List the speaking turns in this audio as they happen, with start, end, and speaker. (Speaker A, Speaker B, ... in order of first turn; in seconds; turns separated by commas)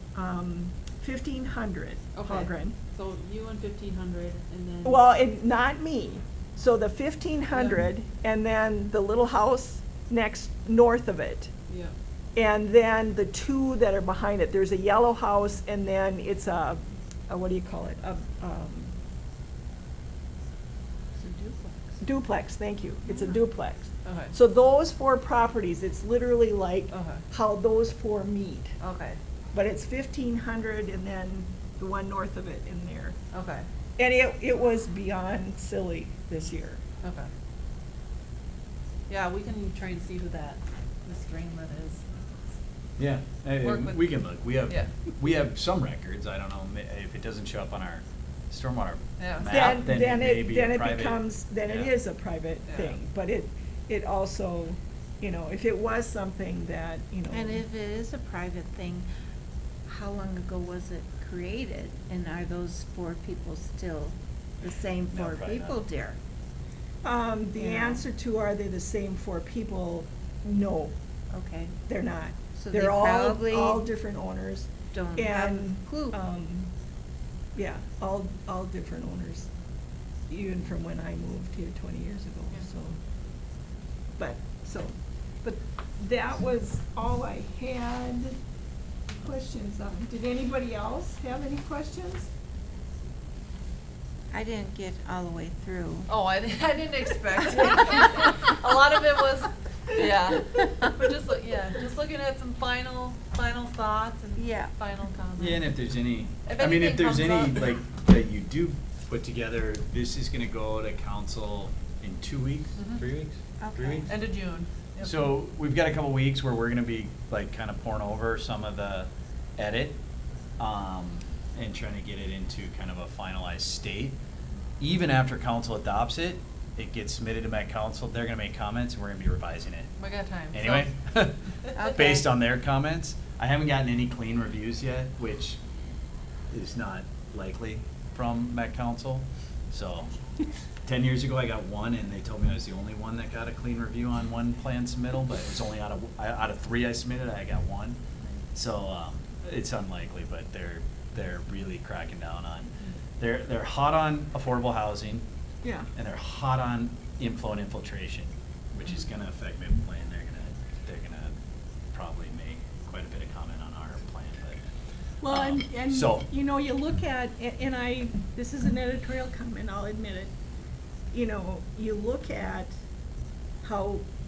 Speaker A: 0.1-2.8, Speaker B: 2.1-5.1, Speaker A: 4.8-11.5, Speaker B: 7.5-7.8, Speaker B: 11.7-11.9, Speaker A: 12.3-18.9, Speaker B: 21.2-22.0, Speaker A: 22.0-28.7, Speaker B: 23.1-23.4, Speaker B: 24.0-24.3, Speaker B: 26.9-27.2, Speaker B: 28.8-29.2, Speaker A: 29.5-33.1, Speaker B: 33.3-33.7, Speaker A: 34.0-36.8, Speaker B: 37.0-37.3, Speaker B: 39.1-42.0, Speaker C: 43.0-51.9, Speaker B: 43.6-44.9, Speaker B: 49.2-49.7, Speaker A: 49.5-57.6, Speaker B: 52.7-52.9, Speaker D: 57.3-59.1, Speaker D: 59.9-66.2, Speaker C: 65.1-65.8, Speaker A: 67.0-70.9, Speaker D: 67.6-68.0, Speaker D: 71.3-71.7, Speaker A: 71.9-76.7, Speaker D: 72.5-73.9, Speaker D: 74.9-76.2, Speaker A: 77.5-79.5, Speaker A: 80.3-83.0, Speaker A: 84.2-88.4, Speaker A: 89.2-92.3, Speaker D: 94.3-96.1, Speaker B: 96.1-105.7, Speaker D: 104.3-104.7, Speaker C: 105.4-114.2, Speaker B: 106.4-107.7, Speaker B: 112.8-113.0, Speaker D: 113.6-114.1, Speaker B: 114.1-115.2, Speaker C: 115.0-120.0, Speaker C: 120.6-124.2, Speaker C: 124.8-129.9, Speaker B: 130.0-130.9, Speaker C: 130.5-135.6, Speaker D: 131.8-132.2, Speaker C: 136.5-140.1, Speaker C: 140.8-148.0, Speaker C: 148.5-155.2, Speaker A: 155.6-155.9, Speaker C: 155.9-161.4, Speaker C: 161.9-164.6, Speaker A: 165.2-170.3, Speaker C: 165.3-166.3, Speaker A: 171.1-172.7, Speaker A: 173.6-174.0